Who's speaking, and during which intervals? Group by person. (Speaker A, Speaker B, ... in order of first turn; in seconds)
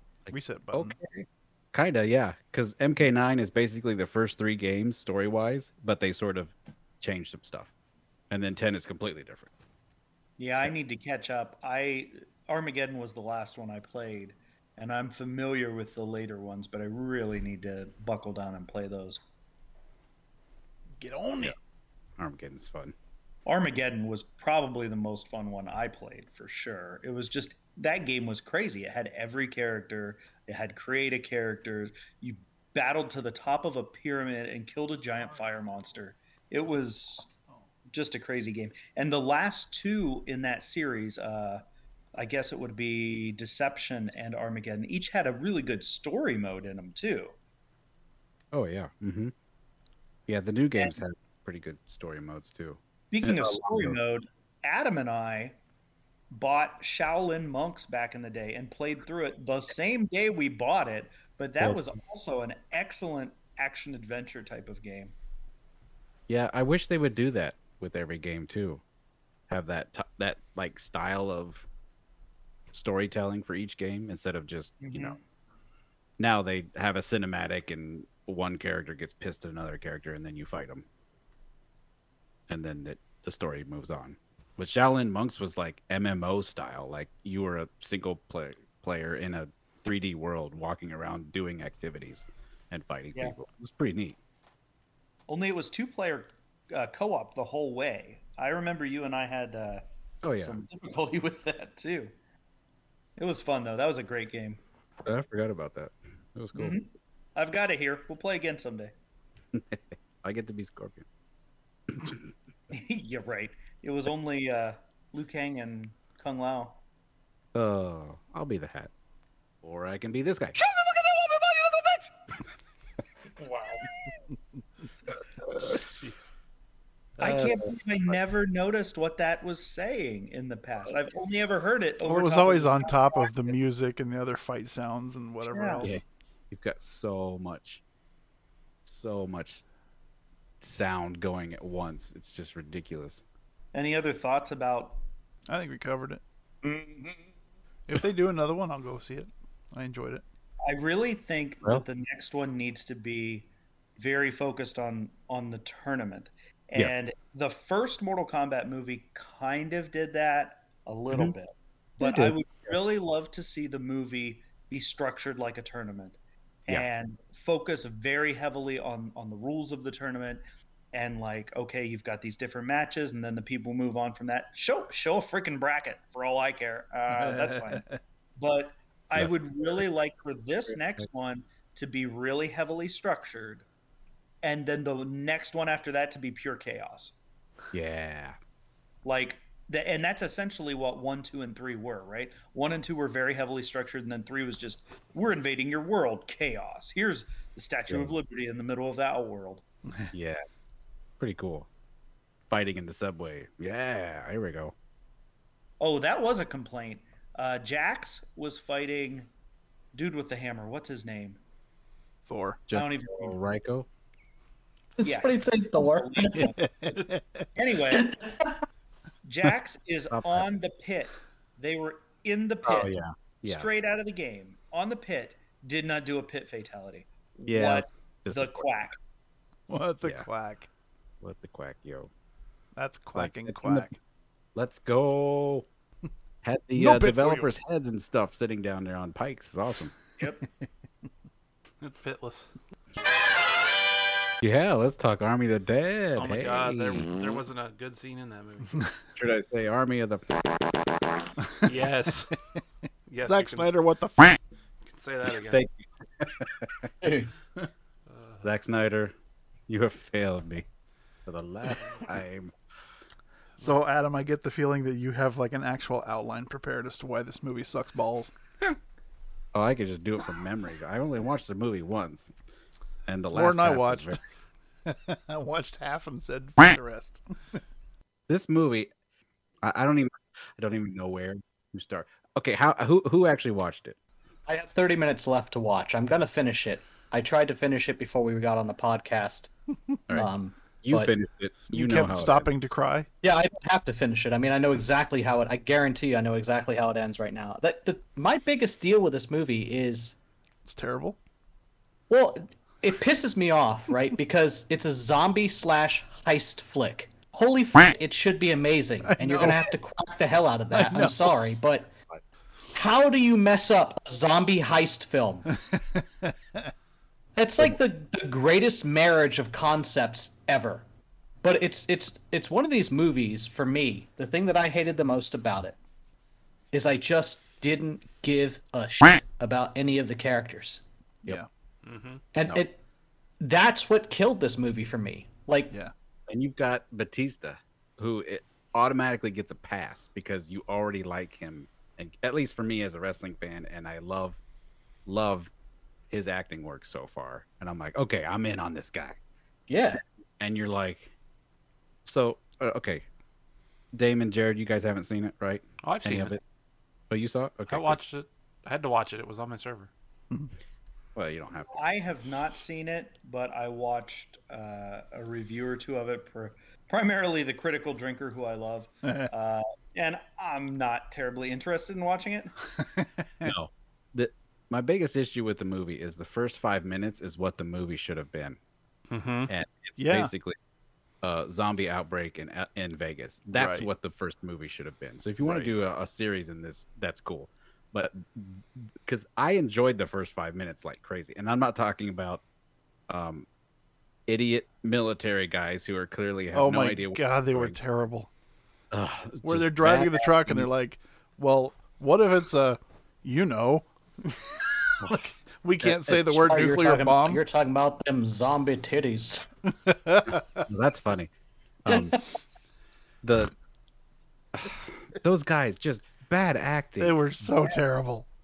Speaker A: 0.3-7.7, 8.3-9.5, 22.2-22.9, 48.5-49.3, 50.3-54.0, 61.6-61.9, 66.3-68.8, 69.5-71.7, 72.7-75.2, 76.2-80.8, 82.5-94.2, 100.2-100.6, 105.0-106.8, 109.5-111.0, 111.9-112.2, 117.5-118.9, 119.6-120.6, 127.2-127.7, 135.8-137.8, 138.8-139.6, 140.6-143.2, 162.0-162.3, 180.7-181.1, 187.7-188.3, 197.9-198.2, 200.1-200.4, 201.2-201.7, 202.5-204.7, 212.7-213.9, 220.1-220.4, 222.6-223.7, 227.5-228.7, 231.2-232.1, 233.2-233.8, 234.5-235.7, 236.4-239.9, 244.4-247.1, 249.2-250.4, 255.3-256.9, 258.4-259.1, 259.7-260.6, 261.2-262.5, 269.5-272.3, 273.1-274.2, 278.3-278.9, 279.6-284.0, 290.8-292.5, 336.3-344.4, 345.1-345.5, 346.1-349.2, 350.4-351.1, 352.0-353.1, 353.9-356.4, 357.1-358.0, 361.1-361.8, 373.4-378.6, 379.5-380.5, 381.2-392.4, 393.1-393.5, 394.3-397.8, 398.9-400.7, 405.8-406.1, 410.6-411.3, 411.8-412.1, 413.2-413.5, 414.5-417.2
Speaker B: 0.3-0.9, 21.0-21.5, 132.0-136.0, 145.5-146.2, 147.9-150.2, 177.1-178.0, 212.2-212.6, 216.4-217.5, 229.7-230.7, 232.8-234.0, 236.8-237.5, 240.4-240.7, 251.4-251.7, 253.2-254.4, 263.6-268.3, 273.3-274.2, 274.8-277.6, 291.7-293.1, 300.6-301.2, 309.1-309.7, 310.7-311.3, 315.7-316.7, 369.0-369.3, 372.8-373.5, 380.0-380.3, 383.5-383.9, 396.5-398.3, 399.4-407.4, 409.7-410.6, 417.0-418.3
Speaker C: 10.4-19.2, 23.4-37.3, 37.9-41.6, 42.1-47.3, 53.1-55.6, 56.3-65.1, 74.8-75.2, 95.3-99.8, 100.4-102.1, 103.2-104.6, 106.5-108.9, 112.7-116.8, 127.2-133.3, 135.4-135.9, 143.7-145.0, 146.6-147.3, 150.7-170.4, 170.9-177.8, 178.4-183.6, 184.4-187.1, 189.0-199.6, 205.8-209.3, 209.9-211.4, 212.7-213.4, 215.0-217.0, 217.6-218.1, 219.2-229.0, 361.7-372.5
Speaker D: 120.6-122.0, 123.4-123.8, 241.8-242.5, 246.2-248.8, 251.6-252.3, 253.1-253.8, 254.8-255.6, 258.1-258.4, 331.8-332.2, 355.8-356.3, 357.7-359.9, 379.1-379.5
Speaker E: 215.0-216.5, 217.9-218.5, 257.0-257.3, 284.5-289.5, 290.1-291.1, 293.2-300.1, 302.1-311.9, 312.7-315.5, 317.4-320.8, 321.4-325.8, 326.7-330.8, 332.3-332.8, 333.4-335.7, 349.7-350.0, 406.1-409.4, 411.9-412.2